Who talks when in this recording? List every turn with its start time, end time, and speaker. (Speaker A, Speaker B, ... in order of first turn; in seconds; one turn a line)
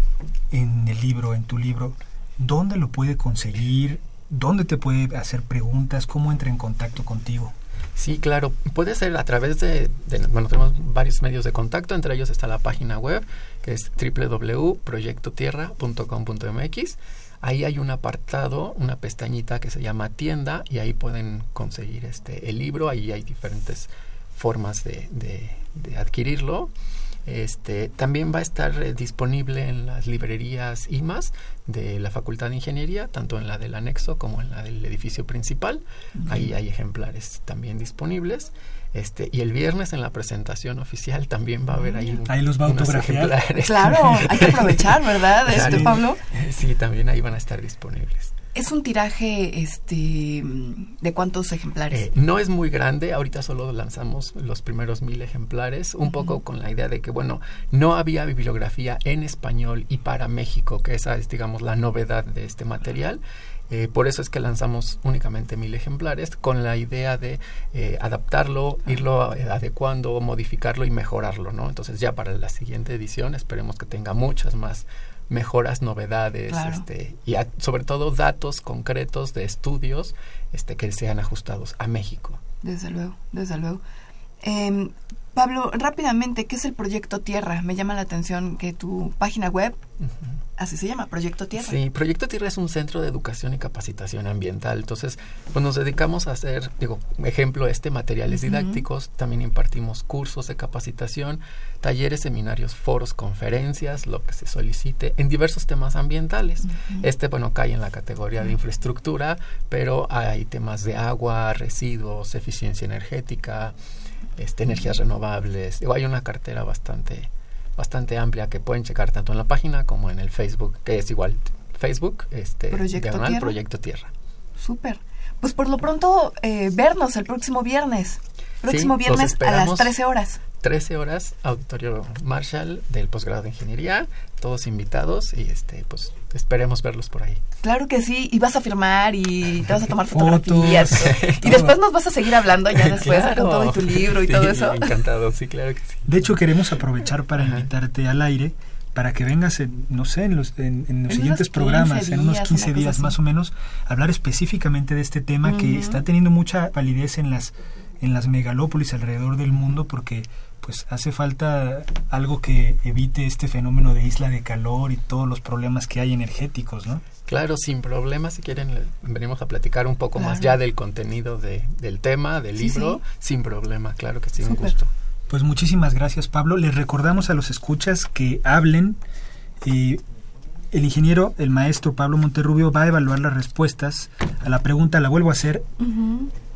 Speaker A: 0.5-7.5
Speaker B: 8.0-26.7
Speaker B: 27.3-44.9
Speaker C: 36.2-36.5
Speaker C: 41.7-42.1
Speaker A: 42.3-43.4
Speaker C: 43.6-46.2
Speaker B: 45.5-48.3
Speaker A: 45.5-46.0
Speaker C: 48.5-52.1
Speaker B: 51.9-82.4
Speaker C: 56.0-56.4
Speaker C: 76.5-76.8
Speaker C: 82.6-83.8
Speaker C: 84.4-89.8
Speaker C: 90.6-91.8
Speaker B: 91.6-113.8
Speaker C: 98.3-98.8
Speaker C: 106.8-107.0
Speaker B: 114.4-124.1
Speaker C: 122.7-123.5
Speaker C: 124.6-130.4
Speaker B: 128.7-130.0
Speaker B: 130.5-137.4
Speaker C: 137.6-144.9
Speaker A: 140.1-141.7
Speaker B: 141.0-141.4
Speaker B: 142.7-146.3
Speaker A: 146.1-167.0
Speaker B: 147.4-147.7
Speaker C: 151.1-153.1
Speaker C: 155.4-156.0
Speaker B: 167.3-174.9
Speaker C: 170.2-170.6
Speaker C: 172.6-173.0
Speaker C: 174.4-174.7
Speaker A: 175.3-179.0
Speaker A: 179.6-180.0
Speaker A: 180.7-185.7
Speaker C: 185.8-186.3